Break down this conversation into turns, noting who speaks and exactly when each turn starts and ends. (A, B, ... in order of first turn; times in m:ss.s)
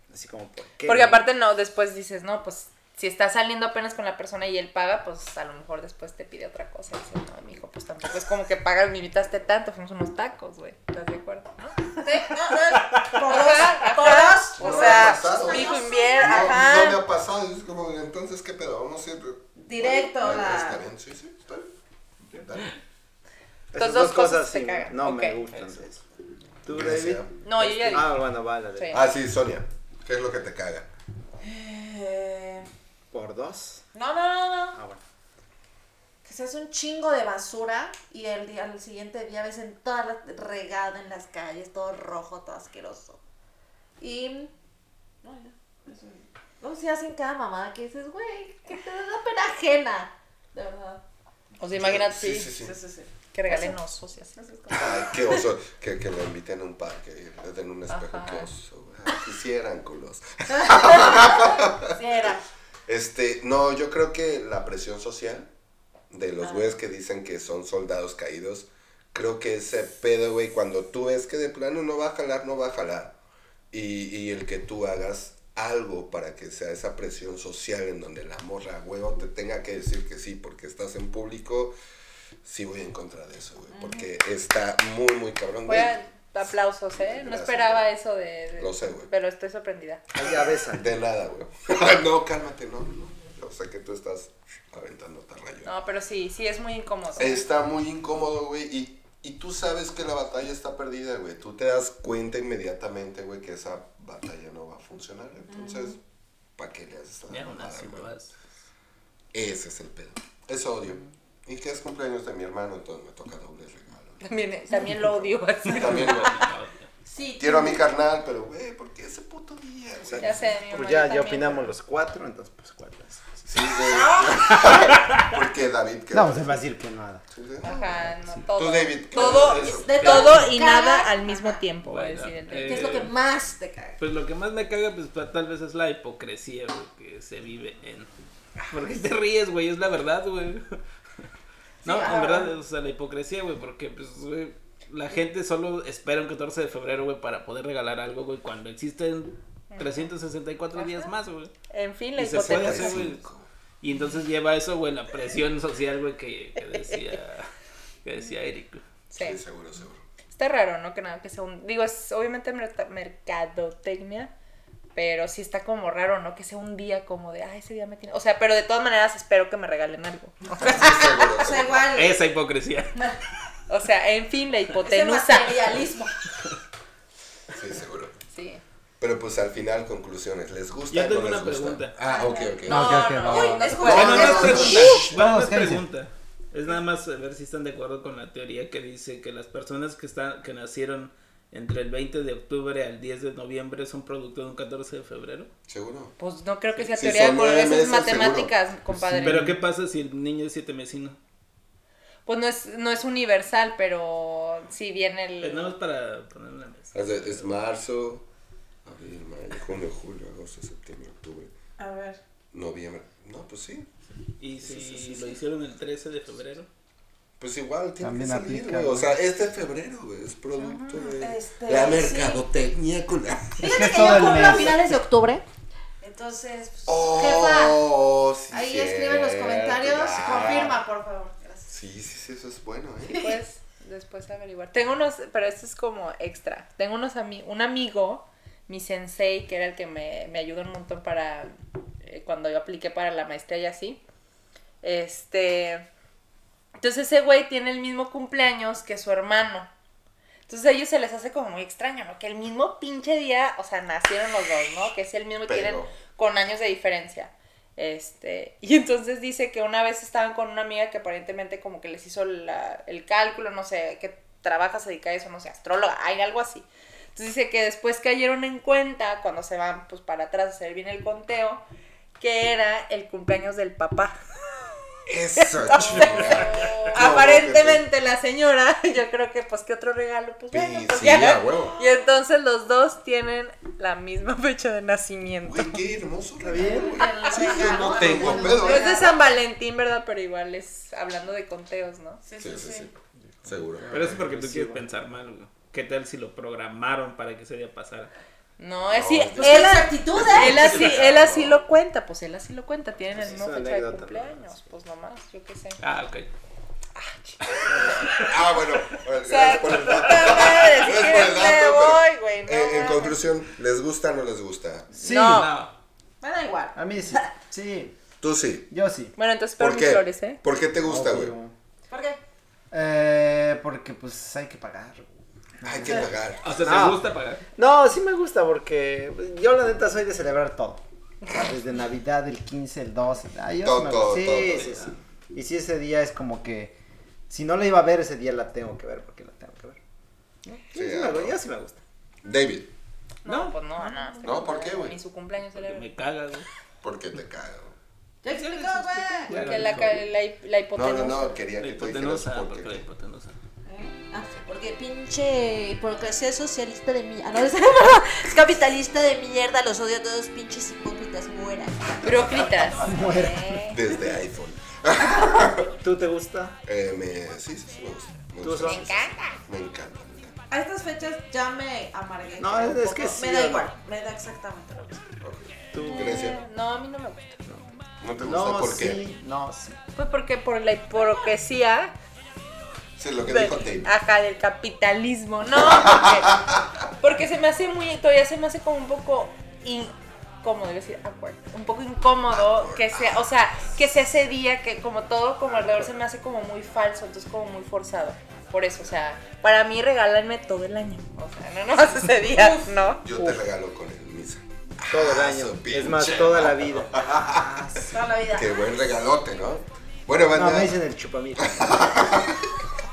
0:00.1-0:01.2 A
0:00.8-0:12.2 B
0:12.0-0:16.5 C
0:13.2-0:17.0 B
0:14.6-0:21.7 D
0:19.6-0:20.8 C
0:22.3-0:22.7 D
0:23.7-0:26.0 A
0:23.7-0:25.4 B
0:26.6-0:29.0 A
0:26.7-0:28.0 D
0:27.4-0:29.0 B
0:28.9-0:30.9 D
0:31.4-0:32.7 C
0:33.1-0:33.8 A
0:33.9-0:34.8 C
0:34.7-0:35.0 A
0:36.2-0:43.2 C
0:44.0-0:44.5 C
0:45.2-0:51.0 C
0:51.6-0:52.5 B
0:51.7-0:52.7 D
0:52.6-0:53.8 C
0:53.3-0:54.3 B
0:54.3-0:55.4 C
0:54.7-1:02.3 D
0:57.9-0:58.5 B
1:00.6-1:02.4 C
1:02.9-1:05.5 D
1:06.1-1:13.1 D
1:06.4-1:06.7 C
1:13.7-1:21.7 D
1:22.4-1:25.9 D
1:23.7-1:24.0 C
1:25.7-1:30.0 B
1:26.9-1:27.9 D
1:28.6-1:29.1 D
1:30.1-1:30.9 A
1:30.7-1:35.7 D
1:35.6-1:37.4 B
1:37.2-1:46.0 D
1:45.5-1:46.0 C
1:46.6-1:48.1 D
1:47.3-1:48.3 E
1:49.3-1:56.4 D
1:54.2-1:56.5 B
1:55.6-1:56.9 E
1:57.0-1:57.8 C
1:57.4-2:00.5 D
2:00.2-2:01.7 B
2:00.6-2:03.5 A
2:03.4-2:06.6 D
2:03.8-2:04.7 C
2:04.7-2:05.2 E
2:06.1-2:07.2 A
2:07.3-2:10.2 D
2:07.6-2:12.9 B
2:08.0-2:08.4 A
2:09.1-2:11.6 C
2:10.0-2:10.4 E
2:11.8-2:13.1 E
2:12.6-2:14.0 C
2:14.0-2:18.1 E
2:18.7-2:20.8 E
2:21.8-2:22.5 C
2:21.8-2:31.5 E
2:29.7-2:30.1 B
2:30.7-2:31.1 B
2:31.7-2:33.1 B
2:32.2-2:33.2 E
2:32.4-2:33.4 D
2:33.8-2:37.5 E
2:38.0-2:38.8 E
2:39.1-2:39.4 B
2:39.2-2:40.0 D
2:40.3-2:44.3 B
2:44.9-2:51.3 B
2:50.6-2:51.9 D
2:51.3-2:52.2 C
2:51.9-2:52.9 E
2:53.7-2:55.6 B
2:54.8-2:56.1 C
2:57.5-2:58.1 D
2:58.3-2:58.6 B
2:59.0-3:03.1 D
3:00.9-3:01.9 E
3:02.0-3:05.0 C
3:02.6-3:05.8 A
3:02.8-3:04.4 B
3:03.8-3:05.2 D
3:03.8-3:15.5 E
3:15.7-3:16.1 D
3:16.2-3:19.5 B
3:16.9-3:18.5 D
3:18.9-3:19.6 A
3:19.2-3:21.2 E
3:22.2-3:25.8 B
3:25.4-3:27.5 E
3:26.9-3:28.3 D
3:28.8-3:31.5 D
3:31.8-3:32.2 C
3:32.5-3:33.9 D
3:34.4-3:36.7 E
3:34.6-3:35.3 D
3:37.4-3:44.8 D
3:38.0-3:39.2 A
3:40.6-3:41.2 B
3:41.2-3:42.4 C
3:43.6-3:44.8 A
3:43.6-3:45.4 C
3:46.0-3:47.8 C
3:46.8-3:50.8 D
3:48.5-3:51.7 C
3:51.7-3:53.3 D
3:53.1-3:53.4 C
3:53.2-4:04.0 B
4:04.8-4:05.8 B
4:06.8-4:09.7 B
4:10.5-4:31.6 B
4:15.4-4:16.0 D
4:32.2-4:34.2 B
4:35.1-4:37.8 D
4:35.4-4:45.8 B
4:35.7-4:37.1 C
4:40.5-4:41.8 D
4:45.4-4:49.1 D
4:46.4-4:47.0 A
4:46.6-4:49.3 C
4:47.4-4:52.2 B
4:52.2-4:52.9 C
4:52.4-4:54.2 D
4:53.4-4:54.8 A
4:53.9-4:58.1 E
4:58.6-5:05.8 B
4:58.9-5:01.6 D
4:59.4-5:00.8 C
5:00.5-5:01.1 E
5:03.1-5:04.7 A
5:05.8-5:06.3 E
5:07.0-5:08.1 B
5:07.7-5:14.9 D
5:08.0-5:08.3 E
5:09.2-5:13.0 B
5:09.6-5:10.9 E
5:12.6-5:13.1 C
5:15.0-5:15.5 A
5:15.0-5:15.5 B
5:15.2-5:15.7 E
5:16.2-5:17.3 C
5:16.7-5:17.9 A
5:18.2-5:18.7 D
5:18.7-5:19.1 A
5:19.2-5:20.4 B
5:19.6-5:21.3 D
5:20.8-5:21.5 A
5:21.9-5:22.2 C
5:22.7-5:25.1 A
5:25.6-5:26.8 D
5:25.6-5:27.0 A
5:26.4-5:27.4 E
5:27.6-5:30.8 A
5:31.3-5:36.8 A
5:33.6-5:34.7 D
5:34.4-5:34.9 E
5:37.3-5:39.8 A
5:40.4-5:41.8 A
5:40.7-5:41.4 D
5:42.2-5:42.7 D
5:43.2-5:45.9 B
5:43.2-5:44.4 E
5:44.2-5:45.0 D
5:45.5-5:46.5 E
5:46.8-5:47.8 D
5:48.2-5:49.7 C
5:48.3-5:50.0 E
5:49.3-5:49.6 A
5:49.3-5:51.4 B
5:50.7-5:52.8 D
5:51.6-5:53.4 E
5:53.6-6:02.4 C
6:02.0-6:03.8 B
6:02.8-6:03.6 A
6:03.6-6:05.7 D
6:05.8-6:06.5 A
6:06.6-6:10.4 D
6:08.4-6:08.9 A
6:08.6-6:09.4 B
6:10.5-6:15.0 C
6:12.4-6:13.7 A
6:15.2-6:16.4 D
6:15.7-6:16.2 A
6:15.8-6:17.4 B
6:17.4-6:19.8 A
6:18.0-6:19.0 D
6:20.0-6:21.9 B
6:23.0-6:23.9 D
6:23.3-6:26.4 B
6:25.6-6:26.8 D
6:27.0-6:29.9 B
6:30.4-6:43.4 B
6:32.3-6:33.2 D
6:42.3-6:42.7 C
6:43.0-6:50.8 D
6:44.9-6:47.9 A
6:47.9-6:48.7 C
6:50.3-6:51.7 A
6:51.4-6:52.5 D